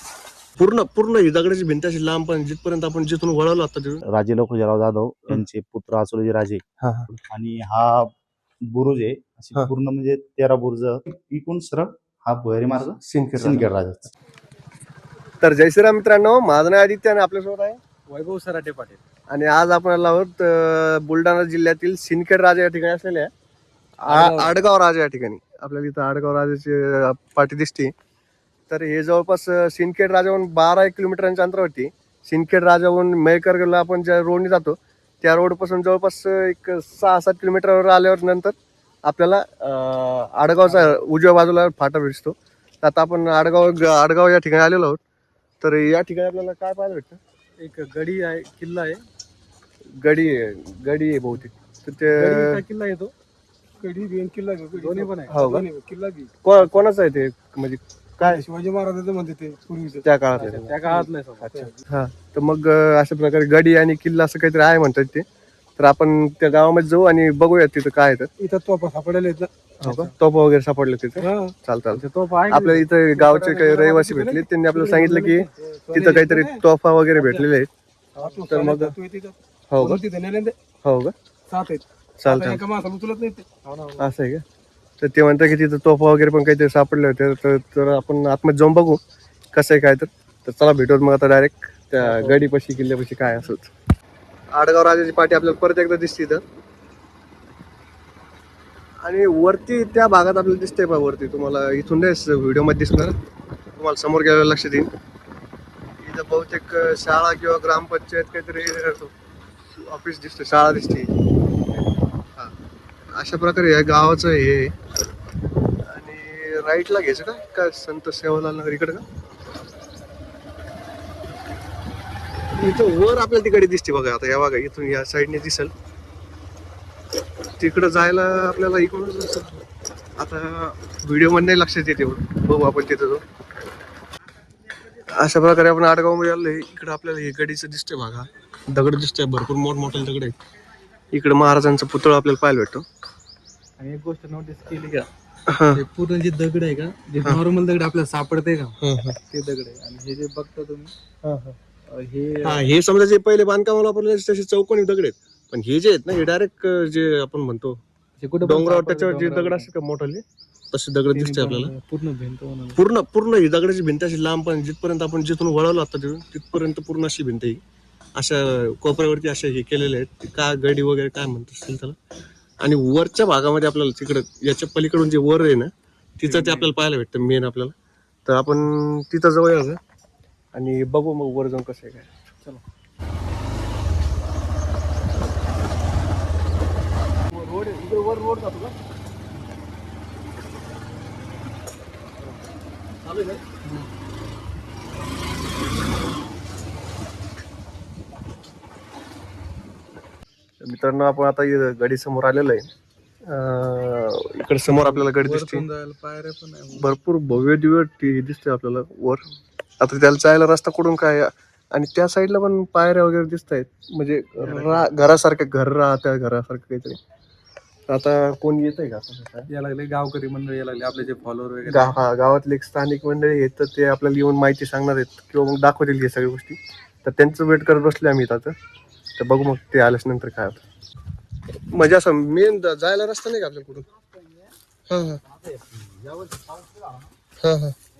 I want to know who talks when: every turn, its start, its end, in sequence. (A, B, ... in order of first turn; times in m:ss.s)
0:00.6-0:04.0 A
0:04.1-0:06.6 B
0:06.8-0:07.1 A
0:07.2-0:08.1 B
0:08.7-0:14.1 B
0:13.0-0:13.7 A
0:15.4-0:17.8 A
0:18.1-0:19.0 C
0:19.3-0:23.3 A
0:24.0-0:27.9 A
0:24.1-0:24.6 C
0:28.7-0:45.0 A
0:45.6-0:47.2 A
0:47.6-0:49.0 C
0:50.0-0:52.6 A
0:52.1-0:53.1 C
0:53.8-0:56.3 D
0:54.8-0:55.4 C
0:55.3-0:55.7 A
0:56.4-0:58.4 A
0:58.2-1:00.0 D
1:00.0-1:05.2 A
1:00.4-1:01.6 C
1:01.0-1:01.7 D
1:05.8-1:08.3 A
1:08.4-1:09.5 D
1:09.8-1:17.7 A
1:11.2-1:11.5 D
1:12.0-1:13.3 C
1:13.3-1:16.6 D
1:18.2-1:20.6 D
1:18.5-1:18.9 A
1:19.7-1:20.0 A
1:20.8-1:21.2 A
1:21.5-1:24.1 D
1:22.2-1:22.6 A
1:24.0-1:24.4 A
1:25.0-1:29.0 A
1:29.5-1:33.7 A
1:34.5-1:36.4 A
1:39.0-1:43.2 A
1:43.8-1:44.9 A
1:46.0-1:49.1 A
1:49.7-1:51.2 A
1:53.1-1:54.8 A
1:55.8-1:59.0 A
2:02.6-2:05.7 A
2:07.6-2:09.6 A
2:10.2-2:13.2 A
2:15.1-2:20.4 A
2:21.1-2:22.9 A
2:23.8-2:25.1 C
2:25.5-2:25.8 A
2:25.7-2:30.9 C
2:28.8-2:29.2 A
2:31.2-2:31.6 A
2:31.9-2:32.7 C
2:32.4-2:37.8 A
2:38.2-2:39.7 C
2:38.4-2:41.7 A
2:41.1-2:42.8 C
2:42.8-2:47.6 A
2:48.2-2:52.0 A
2:52.6-2:57.7 A
2:56.3-2:56.7 C
2:58.3-2:59.8 A
3:00.5-3:02.1 A
3:07.3-3:08.7 C
3:13.0-3:13.4 C
3:20.6-3:22.7 A
3:23.2-3:25.7 A
3:24.7-3:26.9 C
3:26.7-3:29.2 A
3:29.8-3:37.0 A
3:34.4-3:34.9 C
3:37.9-3:39.5 A
3:39.5-3:42.0 C
3:41.6-3:48.6 A
3:49.2-3:50.6 A
3:51.5-3:53.9 A
3:54.9-3:55.2 A
3:55.3-3:57.1 C
3:57.4-3:57.8 A